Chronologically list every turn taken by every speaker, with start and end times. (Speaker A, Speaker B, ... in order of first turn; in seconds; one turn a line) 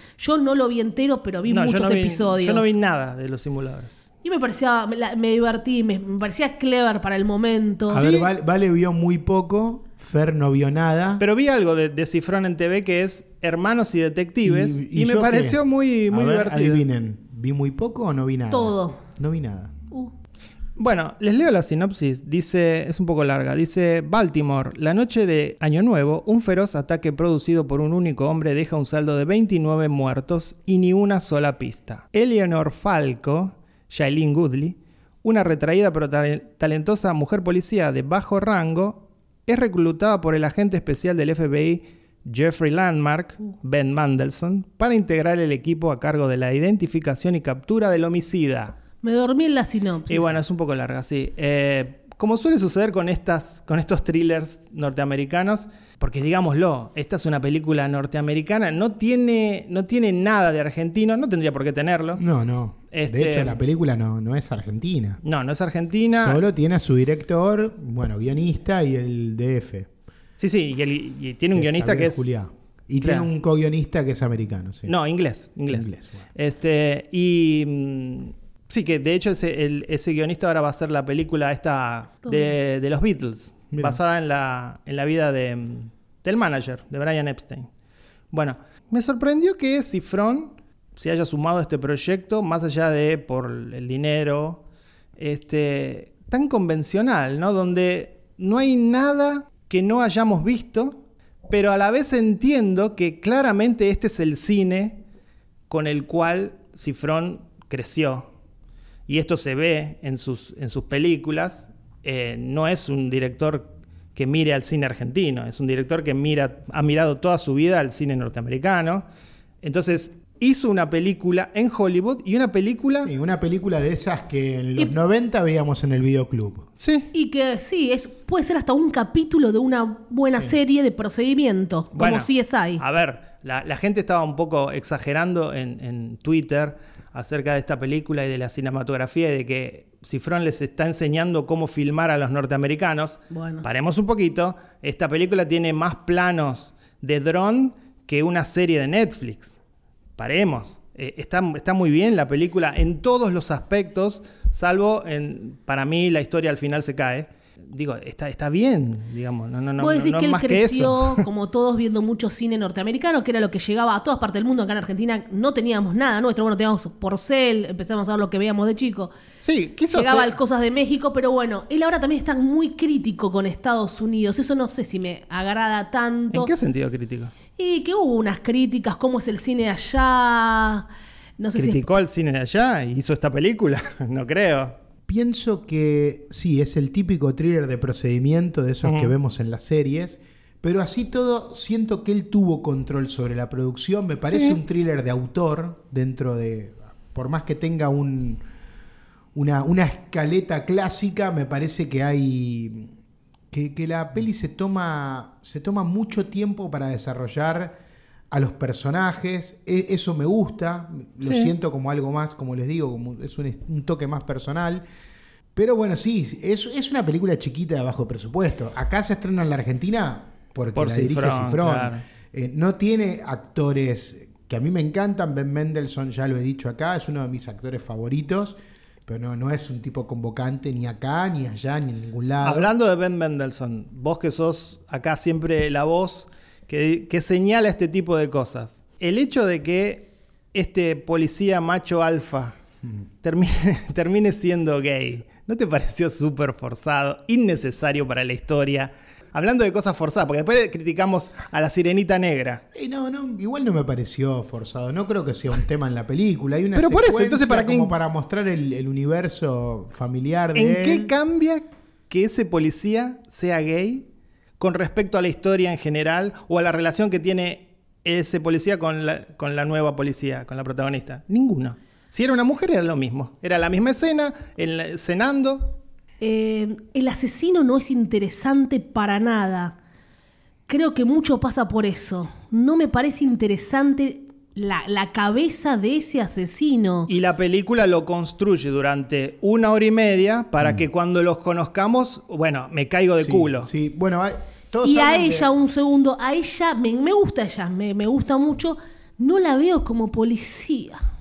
Speaker A: 0.2-2.7
Speaker B: 1.4-4.0
Speaker A: 4.2-8.0
Speaker C: 7.9-11.2
Speaker B: 7.9-8.3
Speaker B: 11.2-16.8
Speaker C: 14.4-15.6
Speaker C: 16.1-19.7
Speaker A: 18.5-19.0
Speaker B: 20.8-48.8
Speaker A: 49.0-50.3
Speaker B: 50.1-62.2
Speaker C: 62.1-65.2
Speaker B: 62.9-63.6
Speaker B: 65.2-66.4
Speaker C: 66.2-69.9
Speaker B: 70.4-72.3
Speaker C: 71.5-74.9
Speaker B: 73.0-73.3
Speaker B: 74.9-87.7
Speaker C: 75.7-76.2
Speaker C: 83.7-84.0
Speaker B: 88.3-94.6
Speaker B: 95.2-105.0
Speaker B: 105.7-108.3
Speaker B: 109.1-119.0
Speaker B: 119.6-123.1
Speaker C: 123.0-126.7
Speaker B: 126.8-127.1
Speaker A: 127.1-132.8
Speaker B: 131.9-149.6
Speaker A: 143.3-143.6
Speaker B: 150.2-161.3
Speaker A: 159.8-169.1
Speaker B: 169.4-170.3
Speaker A: 169.9-176.5
Speaker B: 176.3-177.3
Speaker A: 177.6-180.9
Speaker A: 181.4-181.8
Speaker B: 181.5-184.8
Speaker C: 185.1-198.4
Speaker B: 188.8-189.1
Speaker B: 194.3-194.6
Speaker C: 199.3-202.9
Speaker C: 203.5-207.8
Speaker C: 208.3-214.8
Speaker B: 211.2-211.5
Speaker C: 215.5-232.7
Speaker B: 220.7-222.0
Speaker B: 232.4-242.6
Speaker B: 243.2-252.6
Speaker C: 252.7-261.1
Speaker B: 256.7-257.9
Speaker B: 260.5-264.1
Speaker B: 264.6-275.7
Speaker A: 276.2-279.8
Speaker A: 280.7-287.1
Speaker B: 287.1-293.7
Speaker C: 293.2-295.5
Speaker A: 294.8-301.0